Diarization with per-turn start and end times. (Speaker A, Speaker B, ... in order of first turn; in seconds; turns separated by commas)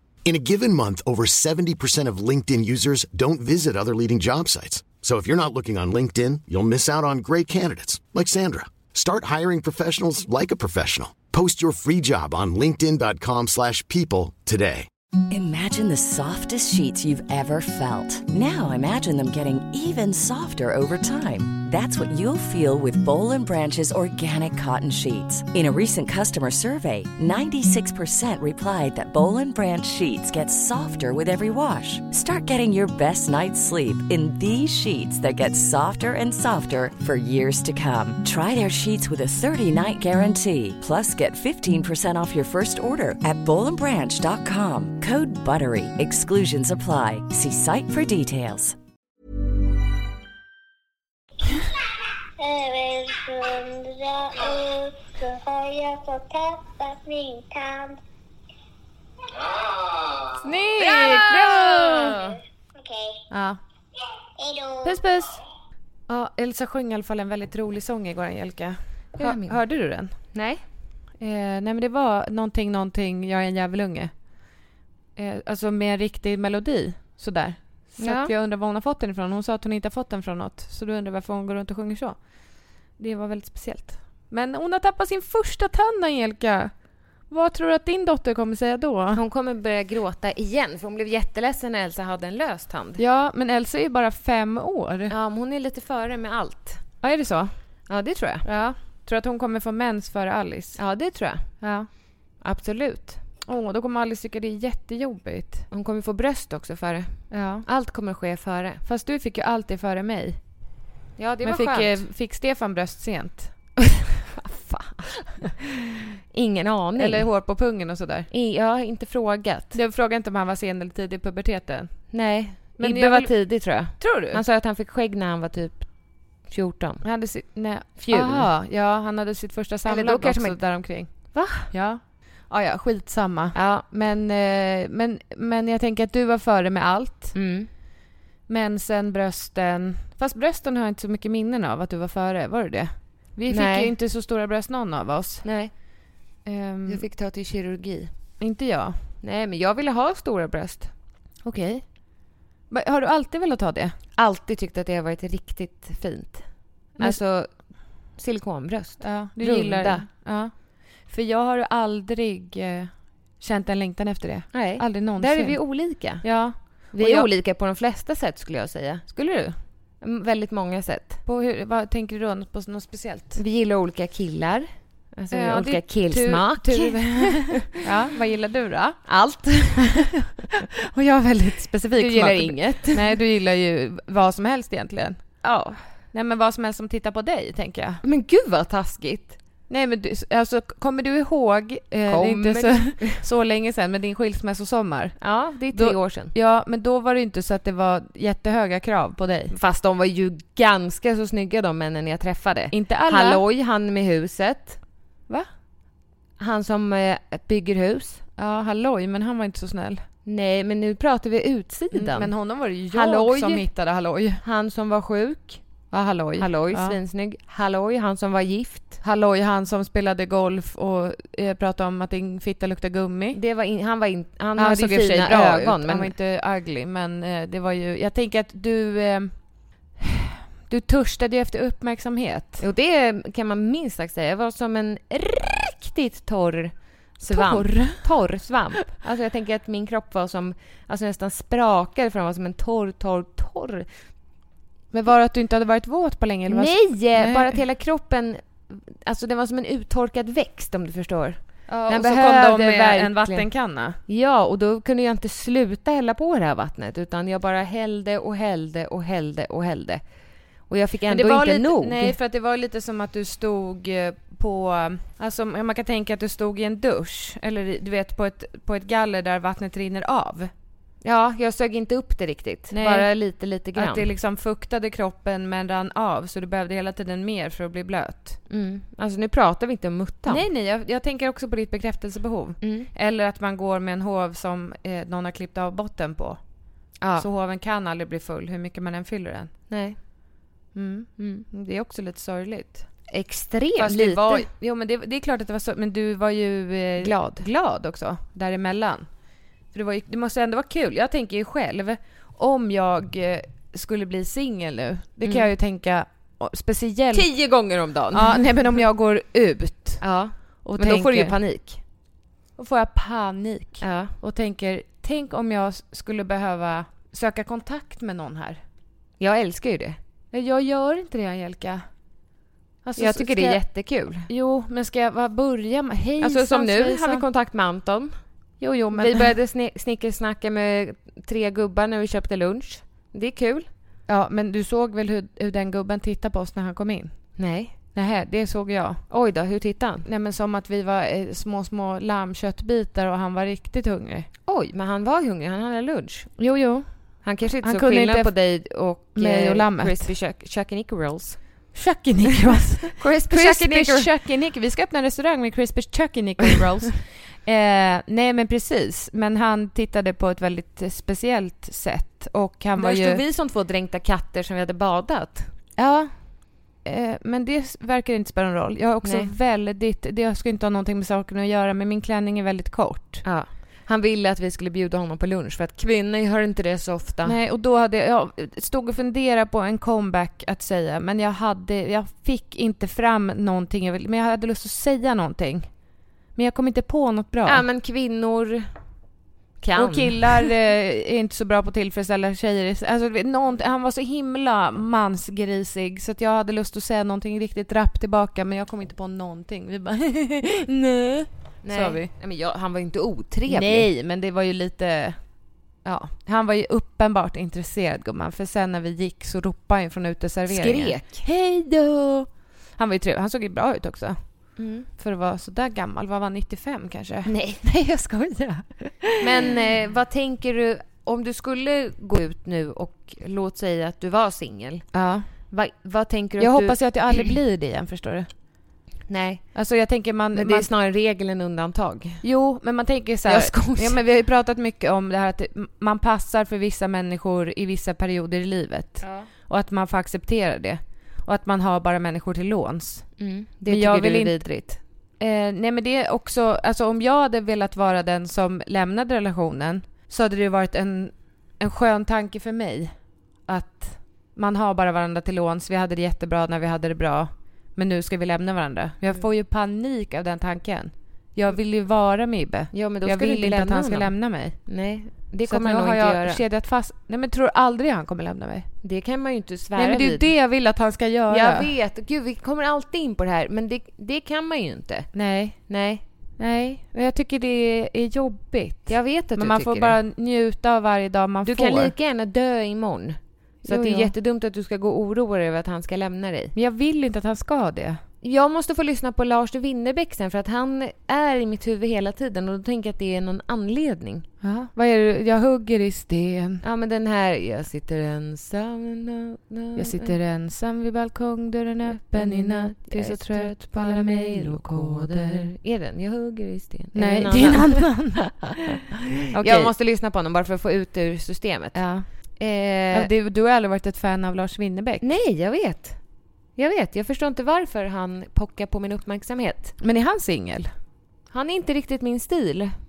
Speaker A: 0.2-14.9, Speaker B: 15.3-48.8, Speaker C: 52.4-58.0, Speaker D: 60.4-62.4, Speaker E: 60.8-62.1, Speaker C: 62.8-63.2, Speaker D: 63.3-63.6, Speaker C: 64.4-65.0, Speaker D: 64.8-65.4, Speaker D: 66.1-70.1, Speaker E: 69.2-69.6, Speaker E: 70.3-70.6, Speaker D: 71.2-74.1, Speaker D: 75.2-82.2, Speaker E: 78.0-78.3, Speaker D: 83.0-86.7, Speaker D: 87.3-89.2, Speaker E: 89.1-93.0, Speaker D: 93.0-95.2, Speaker E: 95.1-96.8, Speaker D: 97.0-97.5, Speaker E: 97.9-98.5, Speaker D: 98.4-100.8, Speaker E: 100.8-101.6, Speaker D: 101.6-101.9, Speaker E: 102.4-103.2, Speaker D: 103.5-105.7, Speaker E: 105.7-108.8, Speaker D: 107.3-107.7, Speaker D: 108.8-110.4, Speaker E: 111.2-112.0, Speaker D: 111.4-113.8, Speaker E: 114.4-115.4, Speaker E: 116.3-117.3, Speaker D: 117.0-118.3, Speaker E: 118.3-119.8, Speaker D: 119.7-122.1, Speaker E: 122.1-127.0, Speaker D: 122.8-124.4, Speaker D: 127.0-137.4, Speaker E: 128.0-128.5, Speaker E: 129.9-131.7, Speaker E: 133.5-133.8, Speaker E: 137.3-137.7, Speaker D: 138.5-145.5, Speaker E: 143.5-143.9, Speaker E: 145.4-145.7, Speaker D: 146.4-147.1, Speaker E: 146.9-148.1, Speaker D: 148.4-149.0, Speaker E: 149.2-150.9, Speaker D: 151.4-151.9, Speaker D: 152.7-153.9, Speaker E: 154.2-160.1, Speaker D: 159.0-160.5, Speaker D: 161.1-167.3, Speaker E: 164.5-169.1, Speaker D: 169.1-169.6, Speaker E: 170.0-171.2, Speaker D: 171.2-173.4, Speaker E: 173.4-177.8, Speaker D: 175.3-179.1, Speaker E: 179.1-180.2, Speaker D: 179.8-180.1, Speaker D: 180.8-185.5, Speaker E: 181.9-183.1, Speaker E: 185.4-185.8, Speaker D: 186.1-188.0, Speaker E: 188.0-189.4, Speaker D: 189.7-199.6, Speaker E: 192.1-193.2, Speaker E: 195.2-196.3, Speaker E: 199.5-204.8, Speaker D: 202.7-203.4, Speaker E: 206.4-208.2, Speaker D: 208.4-210.0, Speaker E: 210.2-212.3, Speaker D: 211.9-214.4, Speaker E: 212.9-213.7, Speaker E: 214.4-215.6, Speaker D: 215.9-217.0, Speaker E: 216.4-219.0, Speaker D: 219.0-223.4, Speaker E: 223.3-226.1, Speaker D: 224.6-232.6, Speaker E: 232.6-243.9, Speaker D: 237.3-238.3, Speaker D: 244.9-247.6, Speaker E: 246.5-260.0, Speaker D: 251.7-254.0, Speaker E: 260.7-262.2, Speaker D: 261.1-270.5, Speaker E: 271.0-274.1, Speaker D: 272.7-273.1, Speaker D: 273.7-278.4, Speaker E: 278.5-280.4, Speaker D: 280.3-286.4, Speaker E: 282.6-282.9, Speaker E: 287.0-287.3, Speaker D: 287.2-289.5, Speaker E: 289.7-290.0, Speaker D: 290.7-292.9, Speaker E: 291.2-291.4, Speaker E: 293.1-294.5, Speaker D: 293.8-299.1, Speaker E: 297.0-297.4, Speaker D: 299.7-307.4, Speaker E: 307.1-308.5, Speaker D: 308.1-310.1, Speaker E: 310.0-311.8, Speaker D: 310.6-311.4, Speaker D: 312.6-318.6, Speaker E: 313.8-314.1, Speaker E: 319.2-320.0, Speaker D: 320.3-321.9, Speaker D: 322.8-323.7, Speaker E: 323.0-324.3, Speaker D: 324.3-327.3, Speaker E: 326.2-333.7, Speaker D: 328.6-329.3, Speaker D: 334.1-339.0, Speaker E: 337.4-337.8, Speaker E: 339.1-340.1, Speaker D: 340.0-344.3, Speaker E: 344.5-346.4, Speaker D: 346.4-350.1, Speaker E: 347.2-351.6, Speaker D: 351.7-363.2, Speaker E: 353.0-354.1, Speaker E: 362.8-365.5, Speaker D: 365.8-366.3, Speaker D: 366.8-373.2, Speaker E: 369.0-369.3, Speaker E: 373.2-377.4, Speaker D: 377.2-385.7, Speaker D: 386.4-387.6, Speaker E: 387.4-388.7, Speaker E: 389.6-390.2, Speaker D: 389.8-402.1, Speaker E: 401.6-403.9, Speaker D: 403.5-405.3, Speaker D: 405.8-419.6, Speaker E: 410.5-411.2, Speaker E: 414.6-414.9, Speaker E: 417.2-417.6, Speaker E: 419.2-424.9, Speaker D: 424.9-425.3, Speaker E: 425.5-427.3, Speaker D: 426.4-428.3, Speaker E: 429.1-429.4, Speaker D: 429.6-430.7, Speaker E: 430.3-432.2, Speaker D: 432.2-444.6, Speaker E: 433.3-434.0, Speaker E: 439.0-439.3, Speaker E: 443.2-444.8, Speaker D: 445.2-452.9, Speaker D: 453.5-464.6, Speaker E: 462.7-466.4, Speaker D: 465.4-468.7, Speaker E: 468.8-470.3, Speaker D: 469.8-471.7, Speaker E: 471.3-475.1, Speaker D: 475.1-475.6, Speaker E: 475.7-476.0, Speaker D: 476.4-481.9, Speaker E: 478.9-480.0, Speaker E: 481.4-486.5, Speaker D: 483.6-484.1, Speaker D: 486.5-488.0, Speaker E: 488.2-494.3, Speaker D: 494.4-496.6, Speaker E: 496.6-500.1, Speaker D: 499.8-505.5, Speaker E: 501.9-508.1, Speaker D: 506.9-508.8, Speaker D: 509.3-509.7, Speaker E: 509.3-513.1, Speaker D: 511.7-512.1, Speaker D: 512.9-515.0, Speaker E: 515.0-516.0, Speaker E: 516.6-519.7, Speaker D: 519.8-520.7, Speaker E: 521.3-522.8